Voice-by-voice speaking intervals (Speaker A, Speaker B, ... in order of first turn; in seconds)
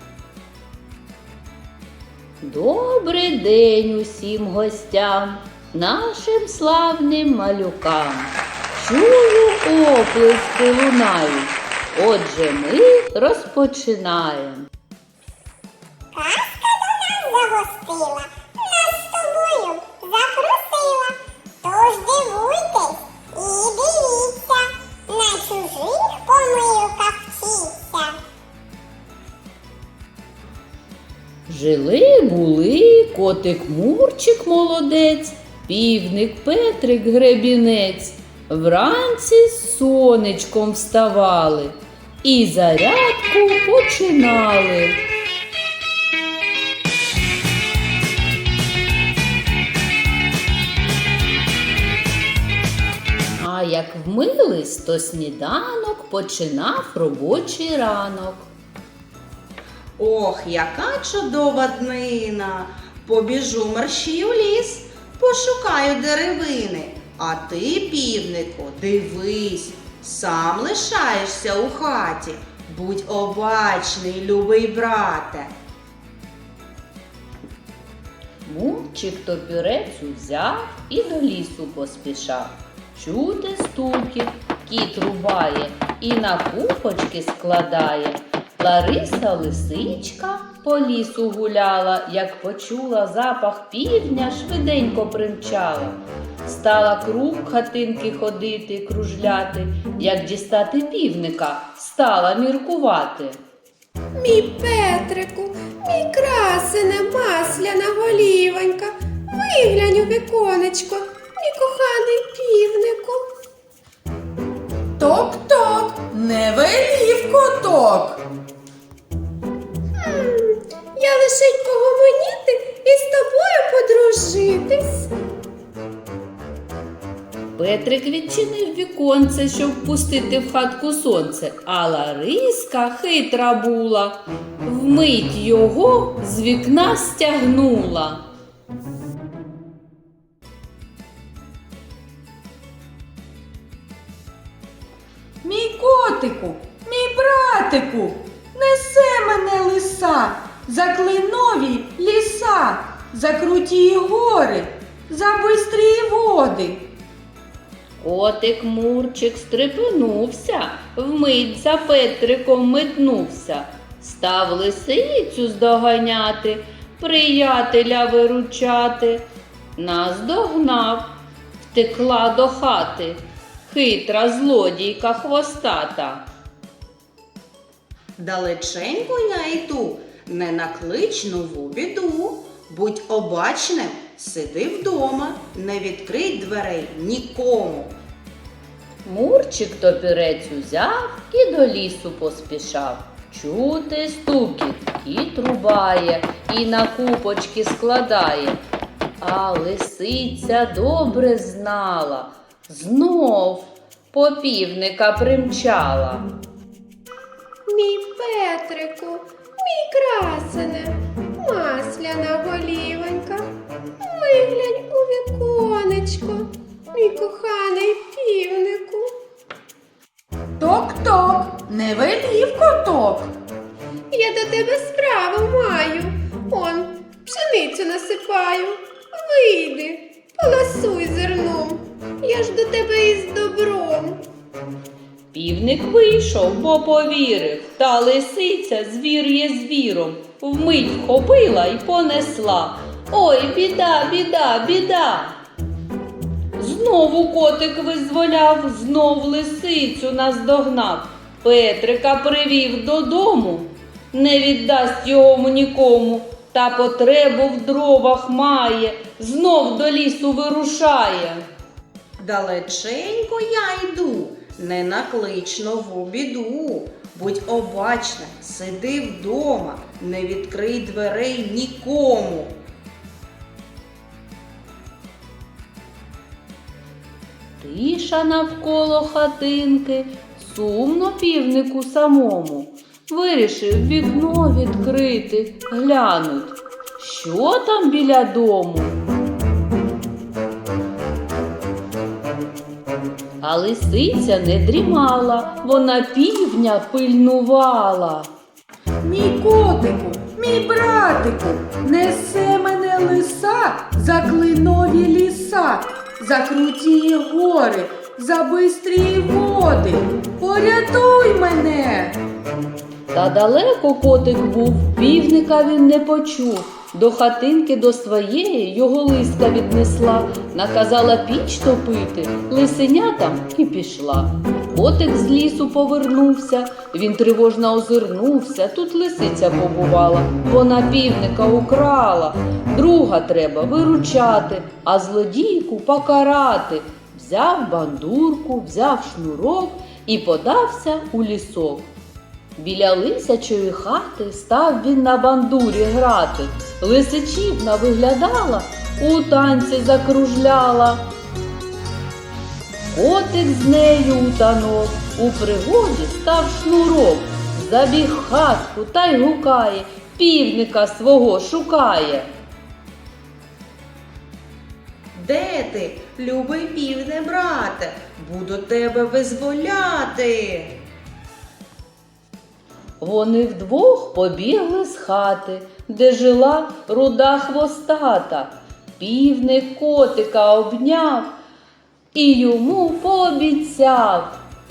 Speaker A: 2.4-14.7, 31.5-45.0, 53.4-58.5, 78.4-103.4, 127.5-138.2, 158.0-169.2, 169.8-171.1, 171.7-176.2, 189.0-198.6, 199.2-206.3, 235.3-245.4, 246.6-261.4, 277.6-288.9, 293.4-298.3, 313.1-341.9, 342.6-351.0, 352.9-362.3, 373.0-381.3, 382.1-384.4
Speaker B: 16.1-28.2
Speaker C: 60.0-75.5, 178.2-187.9, 262.2-272.5, 365.1-370.8
Speaker D: 104.2-113.2, 120.0-125.1, 207.7-213.5, 214.0-219.1, 224.1-234.2
Speaker E: 115.0-118.2, 145.4-156.9, 220.6-223.3, 299.0-312.2